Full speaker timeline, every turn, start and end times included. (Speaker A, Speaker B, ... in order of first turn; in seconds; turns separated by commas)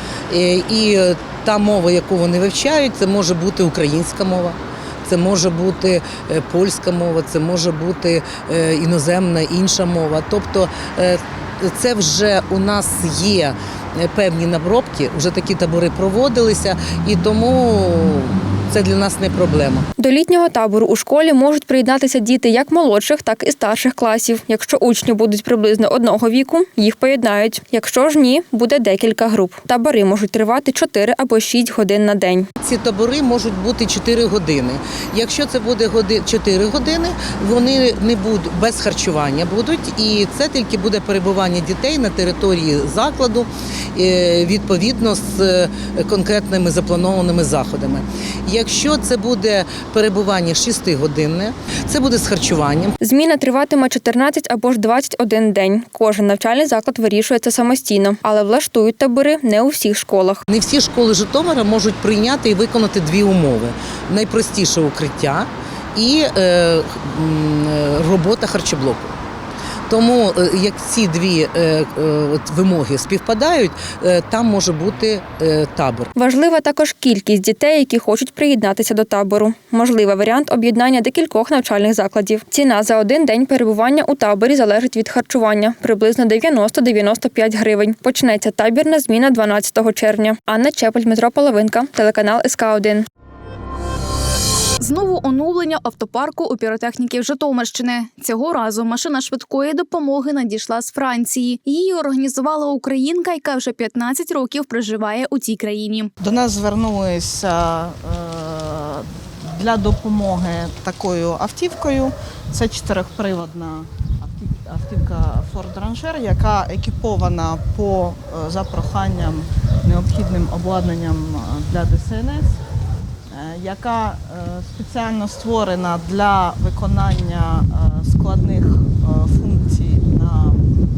Speaker A: 0.3-19.9, Speaker B: 20.0-32.5, Speaker A: 32.6-53.0, Speaker B: 53.0-60.4, Speaker A: 60.5-69.1, Speaker A: 69.9-76.1, Speaker B: 76.2-93.1, Speaker C: 94.8-106.1, Speaker D: 106.2-122.6, Speaker D: 123.3-130.7